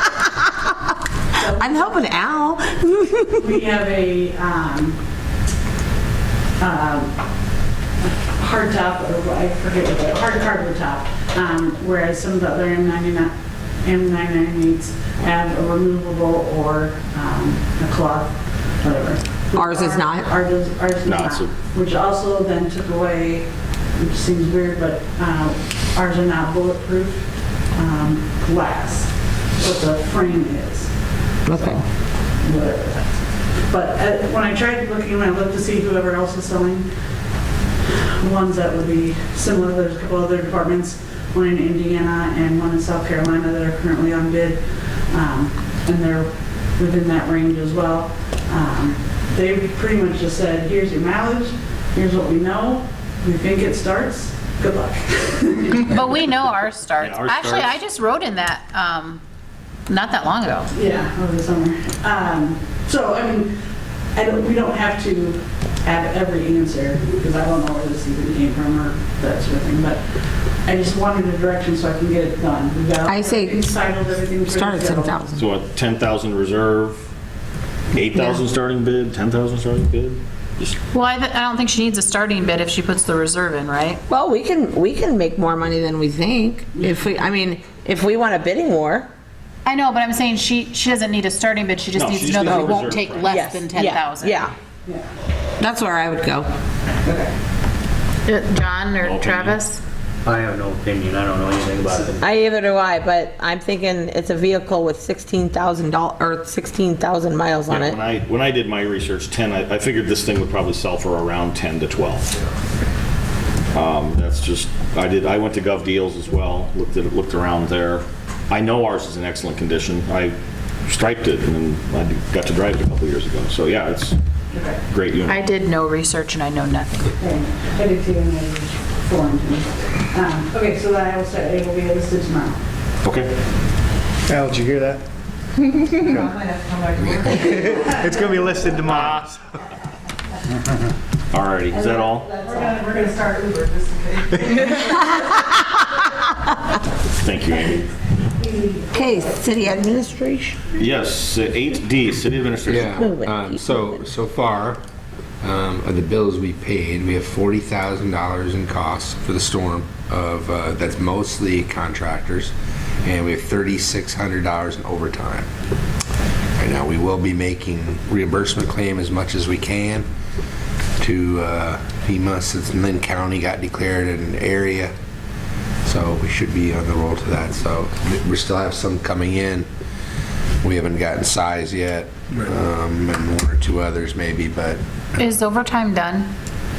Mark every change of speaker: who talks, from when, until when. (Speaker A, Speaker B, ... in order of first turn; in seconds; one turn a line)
Speaker A: 1.4-2.1
Speaker B: 1.6-3.5
Speaker A: 3.4-5.0
Speaker A: 6.6-7.5
Speaker A: 8.2-36.9
Speaker B: 19.6-20.3
Speaker C: 21.0-21.5
Speaker B: 31.5-31.8
Speaker A: 37.9-56.2
Speaker D: 55.8-59.2
Speaker C: 57.0-57.8
Speaker D: 59.9-60.7
Speaker A: 60.7-63.5
Speaker A: 64.1-75.2
Speaker B: 73.0-73.7
Speaker B: 74.5-75.5
Speaker C: 75.4-77.0
Speaker C: 77.9-80.8
Speaker D: 80.9-84.0
Speaker B: 84.1-89.1
Speaker D: 89.7-94.5
Speaker C: 92.0-93.3
Speaker B: 93.3-94.5
Speaker B: 95.6-96.5
Speaker D: 98.2-99.8
Speaker C: 99.0-99.6
Speaker E: 100.2-102.2
Speaker B: 102.2-108.0
Speaker C: 107.7-112.4
Speaker C: 113.7-124.2
Speaker A: 124.5-124.8
Speaker C: 124.9-125.4
Speaker D: 125.3-127.1
Speaker A: 127.2-132.6
Speaker C: 133.0-133.4
Speaker F: 134.3-135.0
Speaker F: 135.6-136.4
Speaker F: 137.2-139.4
Speaker C: 138.8-139.3
Speaker C: 141.3-142.3
Speaker A: 142.0-144.1
Speaker C: 147.2-147.9
Speaker A: 148.4-148.8
Speaker B: 148.9-150.6
Speaker C: 150.7-153.1
Speaker G: 152.7-154.8
Speaker B: 153.0-153.6
Speaker G: 155.4-162.5
Speaker G: 163.0-165.5
Speaker G: 166.6-170.1
Speaker G: 171.0-174.9
Speaker G: 175.8-179.7
Speaker G: 180.6-184.8
Speaker D: 185.2-186.3